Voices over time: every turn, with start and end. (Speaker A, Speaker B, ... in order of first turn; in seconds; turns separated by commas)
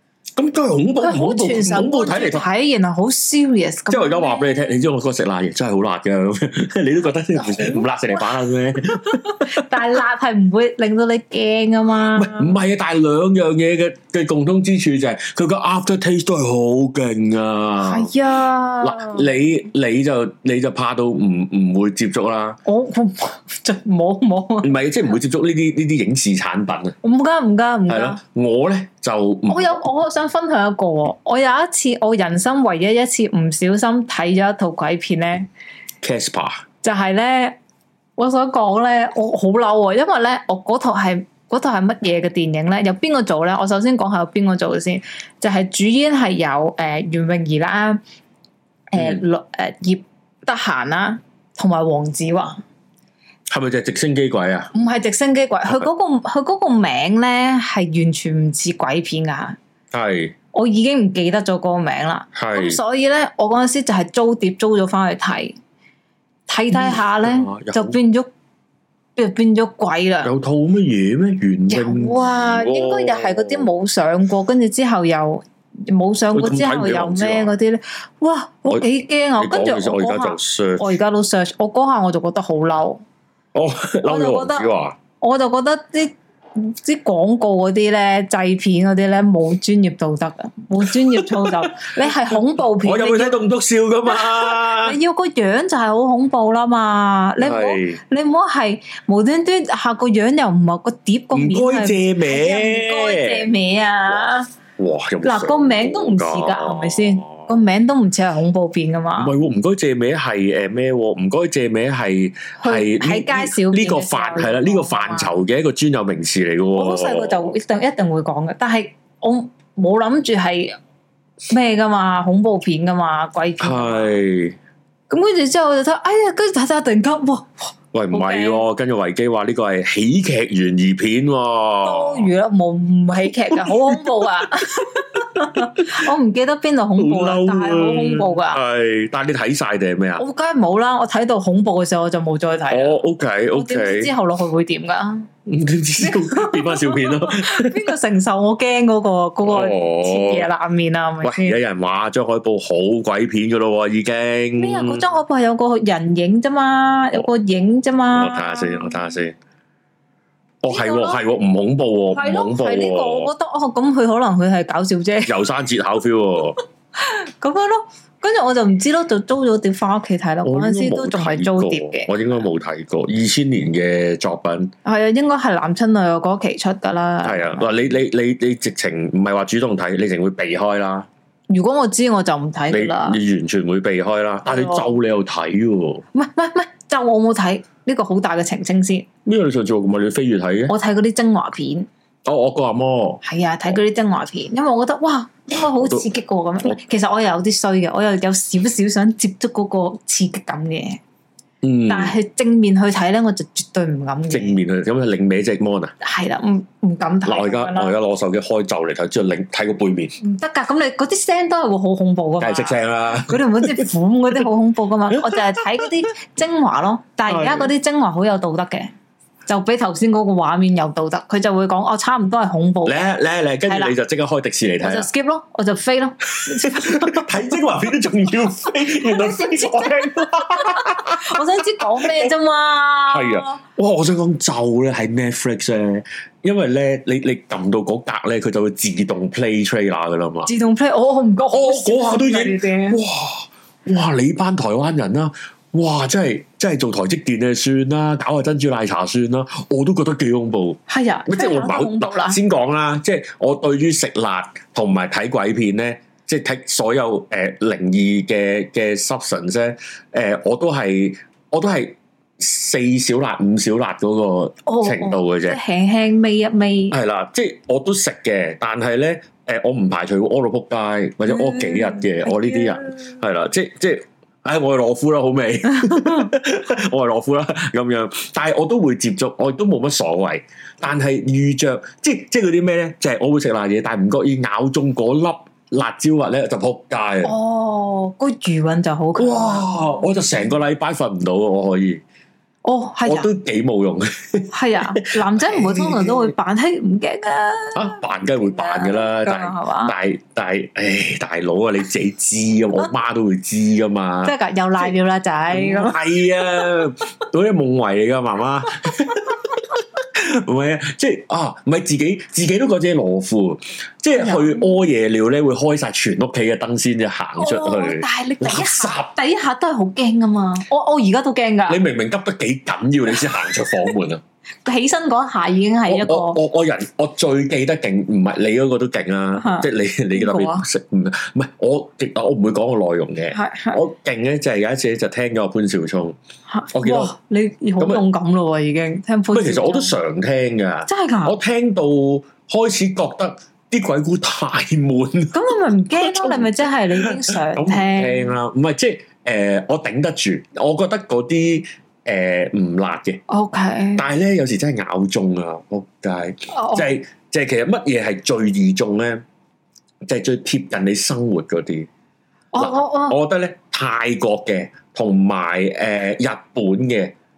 Speaker A: 0.3-2.5, Speaker B: 1.0-4.8, Speaker A: 3.9-9.8, Speaker B: 7.3-12.5, Speaker A: 12.1-18.1, Speaker B: 17.8-19.4, Speaker A: 18.8-22.6, Speaker B: 22.6-24.7, Speaker A: 24.6-26.9, Speaker B: 27.0-28.2, Speaker A: 27.9-29.8, Speaker B: 29.5-35.5, Speaker A: 36.0-36.6, Speaker B: 36.8-37.6, Speaker B: 38.2-48.0, Speaker B: 48.9-52.6, Speaker A: 49.0-49.2, Speaker A: 53.5-54.7, Speaker B: 54.7-59.6, Speaker A: 59.9-60.3, Speaker B: 60.5-65.5, Speaker A: 62.3-62.8, Speaker B: 66.5-68.3, Speaker A: 66.7-68.0, Speaker B: 69.2-70.3, Speaker A: 70.2-73.7, Speaker B: 71.7-83.0, Speaker A: 76.3-77.5, Speaker A: 79.4-80.9, Speaker A: 83.5-85.0, Speaker B: 84.0-93.4, Speaker A: 90.8-95.0, Speaker B: 94.1-104.5, Speaker A: 97.4-98.0, Speaker A: 101.3-103.5, Speaker A: 104.8-107.6, Speaker B: 105.2-109.3, Speaker A: 109.2-117.5, Speaker B: 112.6-115.4, Speaker B: 116.7-120.8, Speaker B: 121.5-124.2, Speaker A: 123.6-124.6, Speaker B: 125.1-128.6, Speaker A: 127.9-132.3, Speaker B: 131.8-138.6, Speaker A: 135.3-135.8, Speaker A: 137.0-140.2, Speaker B: 140.2-143.0, Speaker A: 142.7-144.1, Speaker B: 143.5-145.3, Speaker A: 145.4-147.9, Speaker B: 146.0-151.6, Speaker A: 149.4-150.5, Speaker A: 151.2-155.0, Speaker B: 154.6-159.2, Speaker A: 158.1-159.3, Speaker A: 160.6-163.3, Speaker B: 160.7-161.2, Speaker B: 162.1-165.3, Speaker A: 165.2-166.6, Speaker B: 166.9-172.1, Speaker A: 170.4-174.7, Speaker B: 174.8-177.7, Speaker A: 177.2-181.1, Speaker B: 181.5-183.2, Speaker A: 182.7-186.0, Speaker B: 184.5-184.9, Speaker B: 186.1-189.1, Speaker A: 189.2-190.7, Speaker B: 190.7-191.9, Speaker A: 192.2-193.2, Speaker B: 193.2-201.0, Speaker A: 195.6-196.1, Speaker A: 201.6-202.1, Speaker B: 201.9-204.6, Speaker A: 204.3-205.9, Speaker B: 206.0-207.9, Speaker A: 207.2-210.1, Speaker B: 210.2-218.9, Speaker A: 212.4-213.8, Speaker A: 215.1-215.9, Speaker A: 217.3-217.7, Speaker B: 219.4-223.1, Speaker A: 222.8-225.1, Speaker B: 223.7-223.9, Speaker B: 224.8-227.3, Speaker A: 226.4-231.4, Speaker B: 228.8-233.6, Speaker A: 232.0-232.3, Speaker A: 233.1-240.5, Speaker B: 240.4-243.0, Speaker A: 241.5-265.6, Speaker B: 250.9-252.4, Speaker B: 264.6-266.9, Speaker A: 266.9-287.3, Speaker B: 271.3-273.1, Speaker B: 275.8-276.2, Speaker B: 287.2-289.7, Speaker A: 289.2-292.0, Speaker B: 292.6-293.3, Speaker A: 293.1-296.3, Speaker B: 294.5-299.9, Speaker A: 297.7-304.9, Speaker B: 304.2-306.0, Speaker A: 305.5-319.1, Speaker B: 314.1-314.8, Speaker B: 317.4-321.8, Speaker A: 321.7-324.2, Speaker B: 323.6-323.9, Speaker B: 324.6-326.4, Speaker A: 325.9-336.1, Speaker B: 329.4-330.6, Speaker B: 333.3-333.8, Speaker B: 336.5-339.9, Speaker A: 336.7-337.1, Speaker A: 339.3-345.4, Speaker B: 340.9-341.3, Speaker B: 345.3-348.3, Speaker A: 346.0-353.2, Speaker B: 353.3-354.0, Speaker A: 354.0-359.2, Speaker B: 356.5-356.9, Speaker A: 360.0-361.9, Speaker B: 362.5-363.2, Speaker A: 362.6-367.1